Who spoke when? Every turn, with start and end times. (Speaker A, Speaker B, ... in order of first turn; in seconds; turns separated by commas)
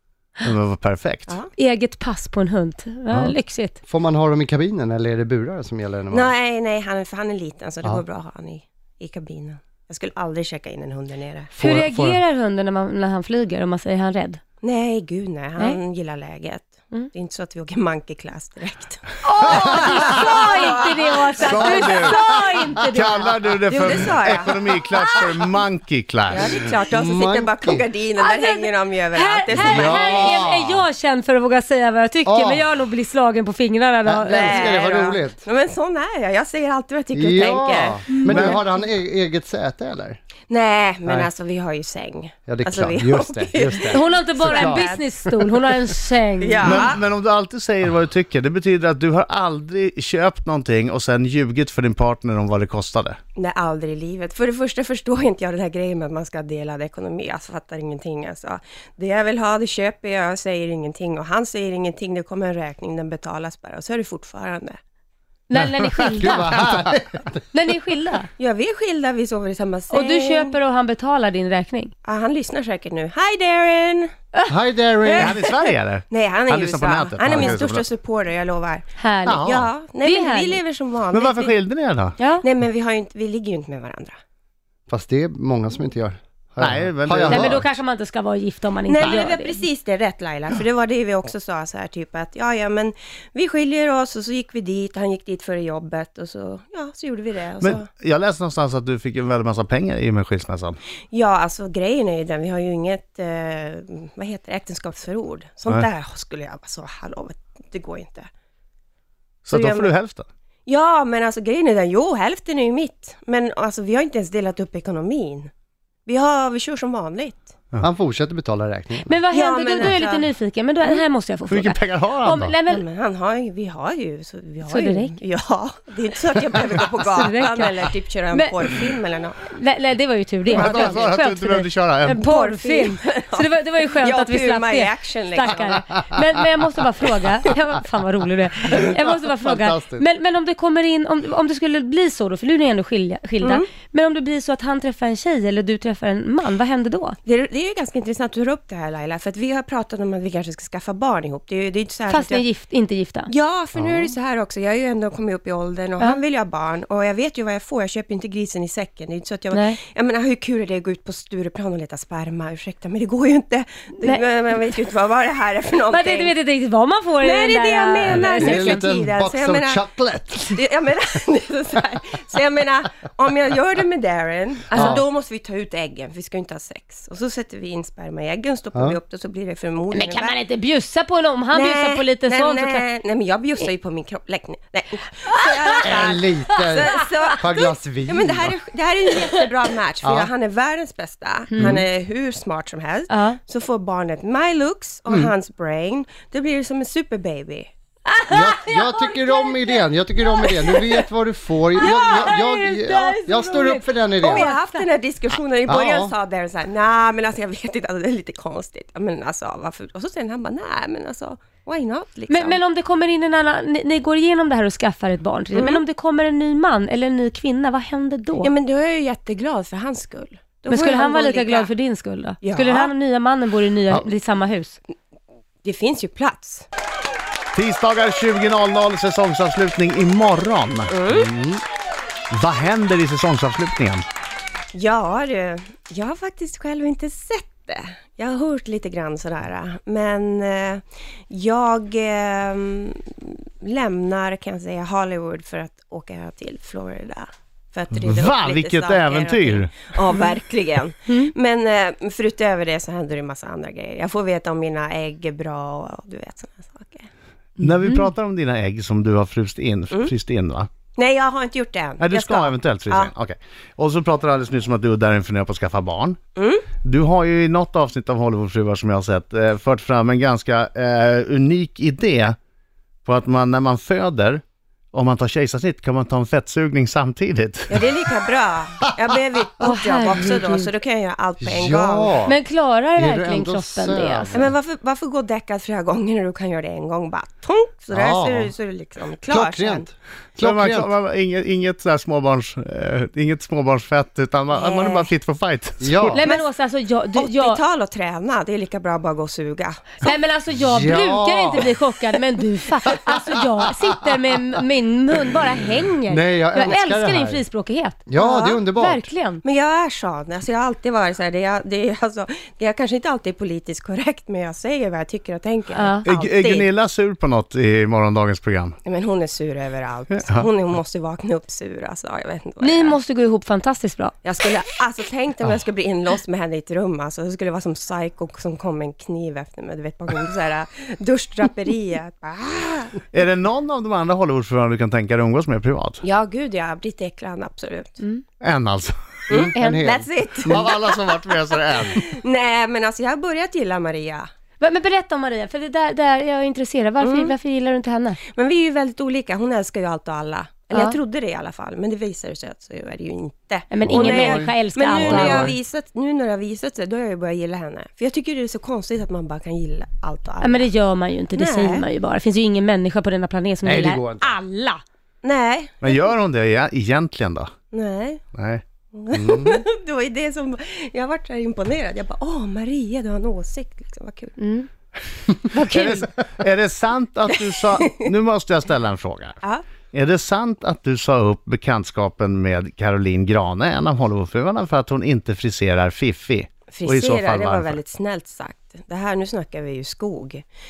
Speaker A: 0.4-1.4, Speaker B: 1.3-1.5, Speaker C: 1.6-3.8, Speaker A: 3.1-3.3, Speaker D: 3.9-6.3, Speaker B: 6.1-11.5, Speaker D: 11.6-12.2, Speaker C: 11.6-14.4, Speaker B: 14.6-22.1, Speaker C: 19.2-23.3, Speaker D: 19.4-19.9, Speaker A: 20.1-20.6, Speaker A: 21.4-22.3, Speaker A: 22.9-26.6, Speaker B: 23.6-24.6, Speaker B: 26.3-30.4, Speaker D: 26.8-27.8, Speaker C: 28.2-34.7, Speaker D: 29.5-30.8, Speaker D: 32.2-32.7, Speaker D: 34.0-35.4, Speaker B: 34.3-38.6, Speaker D: 37.1-40.2, Speaker C: 38.1-38.5, Speaker A: 38.3-38.6, Speaker B: 40.5-45.0, Speaker D: 42.5-45.5, Speaker C: 43.9-46.8, Speaker B: 46.4-47.0, Speaker A: 46.6-53.2, Speaker B: 53.4-64.8, Speaker C: 65.5-66.5, Speaker A: 65.5-65.9, Speaker D: 66.0-67.4, Speaker A: 66.6-66.9, Speaker C: 67.5-68.3, Speaker B: 68.4-70.5, Speaker C: 69.9-71.9, Speaker B: 72.0-74.1, Speaker D: 74.5-75.4, Speaker B: 75.1-78.9, Speaker A: 75.2-77.9, Speaker C: 79.0-80.6, Speaker A: 79.2-79.9, Speaker B: 79.4-81.6, Speaker A: 81.1-82.2, Speaker C: 82.2-82.4, Speaker B: 82.4-84.1, Speaker D: 84.9-87.7, Speaker A: 86.6-87.7, Speaker C: 87.2-89.6, Speaker B: 88.9-97.9, Speaker A: 97.6-100.8, Speaker B: 101.1-108.3, Speaker A: 109.5-110.2, Speaker B: 109.5-109.9, Speaker B: 110.7-115.5, Speaker B: 116.0-117.5, Speaker D: 117.8-119.2, Speaker C: 119.0-122.8, Speaker B: 119.3-120.3, Speaker A: 121.5-122.6, Speaker B: 122.7-129.4, Speaker C: 124.7-125.2, Speaker C: 127.0-128.6, Speaker C: 129.4-147.2, Speaker A: 130.5-132.3, Speaker B: 130.7-131.0, Speaker B: 132.1-135.9, Speaker D: 138.8-140.0, Speaker B: 143.4-143.7, Speaker B: 147.2-152.4, Speaker C: 152.1-153.3, Speaker B: 153.3-166.3, Speaker D: 153.8-154.1, Speaker C: 159.5-159.8, Speaker C: 165.8-168.9, Speaker B: 167.2-169.8, Speaker D: 168.1-170.6, Speaker B: 170.5-180.4, Speaker D: 174.7-175.0, Speaker C: 179.9-182.8, Speaker B: 181.5-197.7, Speaker D: 185.8-188.5, Speaker D: 190.0-190.3, Speaker C: 193.1-193.4, Speaker D: 195.1-195.3, Speaker C: 198.1-201.1, Speaker D: 198.3-204.5, Speaker C: 201.7-204.8, Speaker B: 204.2-212.6, Speaker D: 205.7-206.1, Speaker C: 212.3-218.5, Speaker B: 215.5-215.8, Speaker B: 218.4-221.7, Speaker C: 220.7-224.8, Speaker B: 222.4-222.9, Speaker B: 225.6-226.7, Speaker A: 227.5-230.9, Speaker B: 230.9-231.3, Speaker D: 231.1-231.6, Speaker A: 232.3-234.0, Speaker B: 234.7-257.1, Speaker A: 248.0-250.0, Speaker A: 257.6-260.7, Speaker C: 257.6-258.1, Speaker B: 260.9-263.1, Speaker A: 262.0-266.2, Speaker B: 266.4-266.7, Speaker A: 266.8-272.4, Speaker A: 273.0-274.4, Speaker A: 274.9-277.8, Speaker B: 277.7-282.2, Speaker C: 279.6-280.5, Speaker D: 281.4-282.4, Speaker C: 282.2-284.5, Speaker D: 282.9-284.5, Speaker B: 284.3-289.9, Speaker D: 287.9-288.5, Speaker D: 289.3-290.9, Speaker A: 290.4-296.2, Speaker B: 294.5-295.1, Speaker D: 295.8-296.3, Speaker C: 296.1-297.6, Speaker B: 297.1-300.1, Speaker C: 300.0-308.0, Speaker D: 300.6-301.8, Speaker D: 306.1-307.4, Speaker D: 308.1-309.1, Speaker B: 308.1-308.6, Speaker C: 308.6-309.4, Speaker B: 309.4-316.7, Speaker C: 315.7-316.1, Speaker A: 316.0-318.8, Speaker B: 318.8-323.0, Speaker A: 320.1-320.5, Speaker C: 322.6-324.1, Speaker B: 324.2-332.9, Speaker A: 333.1-336.0, Speaker B: 336.0-338.0, Speaker A: 338.4-338.9, Speaker B: 339.3-340.7, Speaker D: 339.3-340.8, Speaker C: 339.5-339.8, Speaker A: 340.5-342.0, Speaker B: 342.0-344.3, Speaker C: 344.6-348.2, Speaker B: 347.0-347.3, Speaker B: 348.2-360.7, Speaker C: 350.7-351.0, Speaker C: 353.7-355.5, Speaker D: 353.8-355.5, Speaker C: 360.4-364.8, Speaker B: 361.3-361.9, Speaker D: 363.6-364.3, Speaker B: 365.2-365.8, Speaker A: 365.8-367.5, Speaker B: 367.7-368.2, Speaker A: 368.3-368.6, Speaker B: 368.9-374.4, Speaker D: 369.1-369.6, Speaker C: 374.4-374.7, Speaker C: 375.4-376.1, Speaker A: 375.7-379.4, Speaker A: 379.9-387.8, Speaker B: 386.7-390.4